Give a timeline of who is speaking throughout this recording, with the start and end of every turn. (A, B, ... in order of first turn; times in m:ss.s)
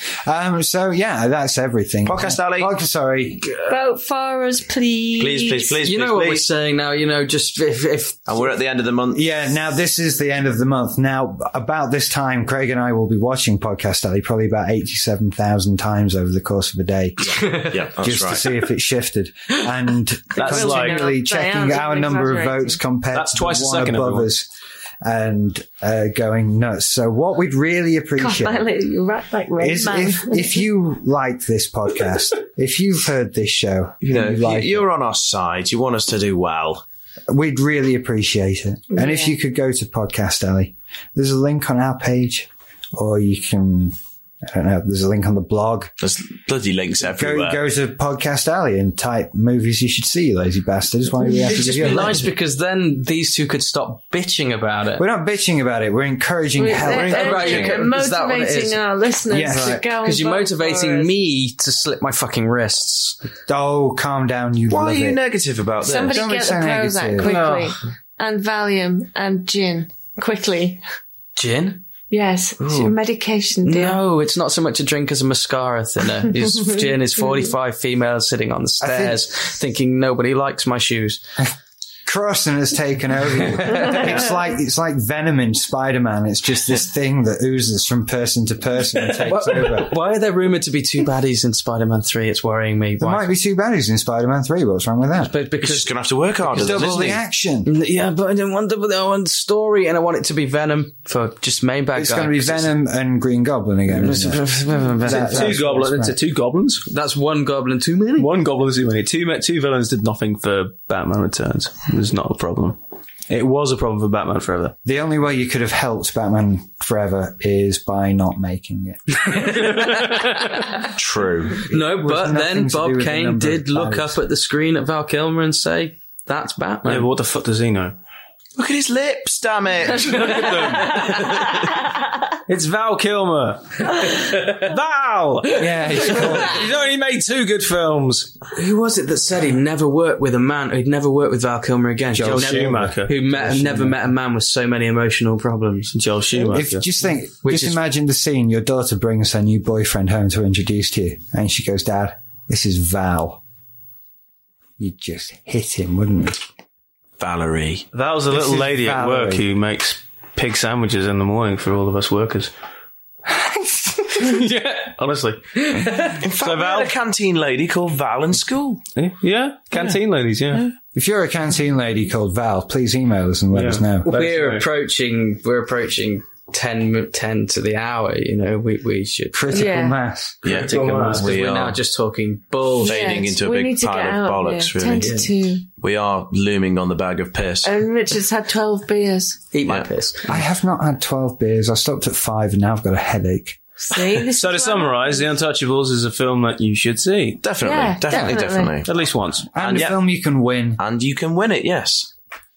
0:00.2-0:03.5 A
0:02.0-0:02.7 B
0:03.7-0:05.8 C
0:05.2-0:06.4 B
0:05.8-0:08.3 D
0:08.3-0:09.4 B
0:09.1-0:24.5 A
0:17.2-0:18.5 B
0:17.4-0:17.7 D
0:20.4-0:21.1 E
0:20.4-0:22.8 C
0:23.1-0:24.3 E
0:25.0-0:28.7 A
0:28.2-0:30.6 C
0:29.6-0:34.8 A
0:34.0-0:36.8 B
0:37.3-0:45.9 A
0:39.0-0:39.4 C
0:46.0-0:47.6 B
0:47.1-0:52.3 A
0:51.3-0:55.0 D
0:55.0-0:57.2 A
0:56.6-1:01.1 C
0:56.8-0:57.9 B
0:57.1-0:58.8 D
0:59.3-0:59.8 A
0:59.6-1:03.2 D
1:03.5-1:05.2 A
1:04.7-1:06.2 B
1:05.8-1:10.8 C
1:06.1-1:07.3 A
1:07.2-1:07.8 D
1:11.4-1:11.8 D
1:12.1-1:14.0 C
1:12.6-1:13.0 D
1:13.6-1:21.2 D
1:18.8-1:19.3 A
1:22.1-1:30.0 A
1:29.1-1:33.4 D
1:33.0-1:35.3 A
1:35.2-1:37.1 D
1:35.6-1:37.2 B
1:36.6-1:37.7 A
1:37.6-1:42.7 D
1:42.0-1:44.5 A
1:43.9-1:46.1 D
1:45.0-1:46.1 A
1:45.1-1:46.8 E
1:46.8-1:48.3 D
1:48.2-1:52.8 E
1:53.3-1:54.8 E
1:54.8-1:59.3 A
1:59.1-2:00.8 D
1:59.8-2:00.5 E
2:00.9-2:01.6 B
2:01.6-2:04.2 A
2:01.7-2:07.1 D
2:06.8-2:08.0 E
2:08.6-2:11.8 B
2:10.0-2:11.6 E
2:10.1-2:11.2 D
2:12.5-2:18.3 E
2:15.6-2:16.6 A
2:18.5-2:26.0 D
2:22.2-2:23.2 E
2:22.2-2:24.0 A
2:25.9-2:26.9 E
2:26.5-2:33.4 A
2:27.4-2:27.8 D
2:34.8-2:36.4 A
2:37.2-2:37.9 B
2:37.9-2:42.5 E
2:38.3-2:39.5 A
2:43.3-2:44.4 A
2:44.2-2:46.9 E
2:45.6-2:46.2 D
2:46.2-2:48.8 B
2:49.0-2:50.7 E
2:50.9-2:54.1 A
2:53.5-2:54.7 E
2:54.0-2:59.8 D
2:59.3-3:00.5 A
2:59.5-3:00.0 C
3:00.4-3:01.8 B
3:00.5-3:01.3 E
3:00.5-3:03.2 D
3:02.8-3:05.2 B
3:02.8-3:05.7 C
3:05.0-3:05.3 D
3:05.8-3:07.8 B
3:07.6-3:09.4 C
3:09.5-3:10.4 D
3:10.3-3:13.6 A
3:13.8-3:15.2 C
3:14.3-3:17.4 E
3:17.4-3:18.9 B
3:17.6-3:18.8 C
3:18.8-3:19.5 E
3:19.5-3:20.8 A
3:19.6-3:20.0 B
3:20.8-3:22.1 B